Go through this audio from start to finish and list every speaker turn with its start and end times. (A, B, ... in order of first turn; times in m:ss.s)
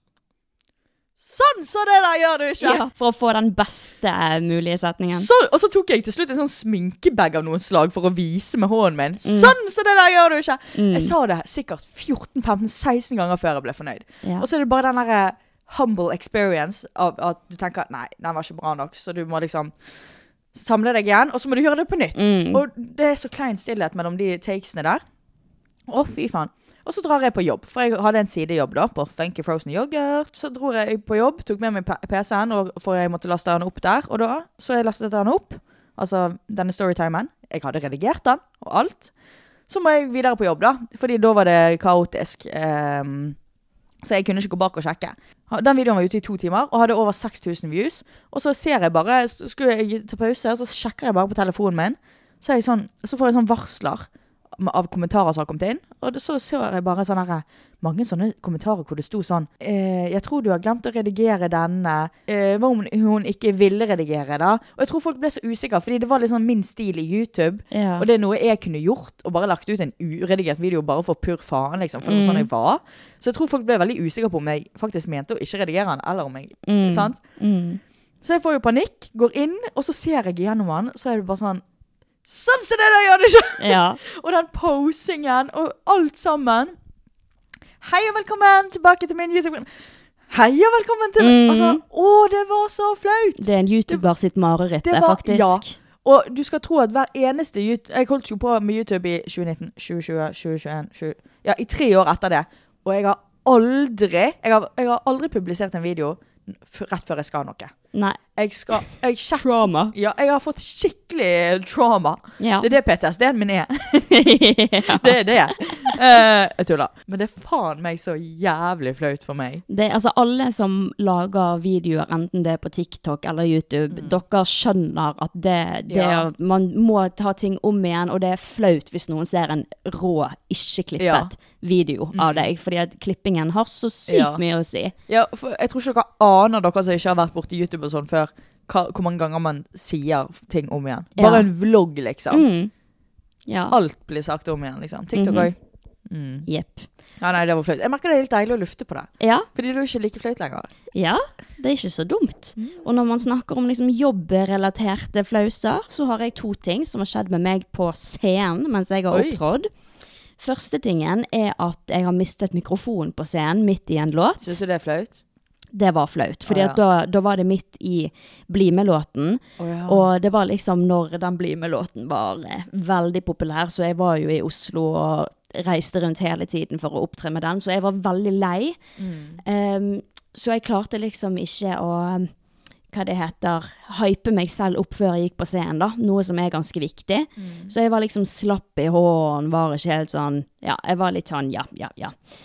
0:01.2-0:02.8 A
0:02.6-0:05.3 B
0:05.1-0:19.7 A
0:09.2-0:09.5 B
0:10.8-0:11.1 B
0:20.5-0:25.0 A
0:22.1-0:22.6 B
0:25.9-0:39.1 A
0:39.7-0:43.4 A
0:44.0-1:17.2 A
1:07.7-1:08.1 B
1:12.0-1:12.5 B
1:16.7-1:17.8 B
1:18.2-1:21.6 A
1:22.2-1:26.8 A
1:23.6-1:24.0 B
1:27.8-1:29.7 A
1:30.3-1:34.0 A
1:31.2-1:31.8 B
1:33.4-1:35.8 B
1:34.8-1:47.7 A
1:47.9-1:48.2 B
1:48.4-1:54.1 A
1:49.4-1:49.9 B
1:52.4-1:52.7 B
1:54.1-1:56.0 B
1:54.8-1:59.6 A
1:59.7-2:14.9 B
2:03.9-2:04.2 A
2:05.9-2:06.3 A
2:11.0-2:11.3 A
2:12.1-2:12.4 A
2:14.1-2:14.4 A
2:15.1-2:22.4 A
2:21.2-2:21.5 B
2:22.3-2:22.7 B
2:23.5-2:23.8 B
2:23.7-2:25.6 A
2:25.1-2:25.5 B
2:26.1-2:26.5 A
2:26.5-2:26.9 B
2:27.2-2:30.7 A
2:29.2-2:29.5 B
2:30.9-2:39.7 B
2:32.6-2:32.8 A
2:39.1-2:39.4 A
2:40.4-2:44.6 B
2:44.4-2:45.2 A
2:45.7-2:58.8 B
2:46.5-2:46.8 A
2:49.6-2:50.1 A
2:59.0-2:59.4 A
2:59.4-3:02.3 B
3:02.9-3:12.1 B
3:07.4-3:07.7 A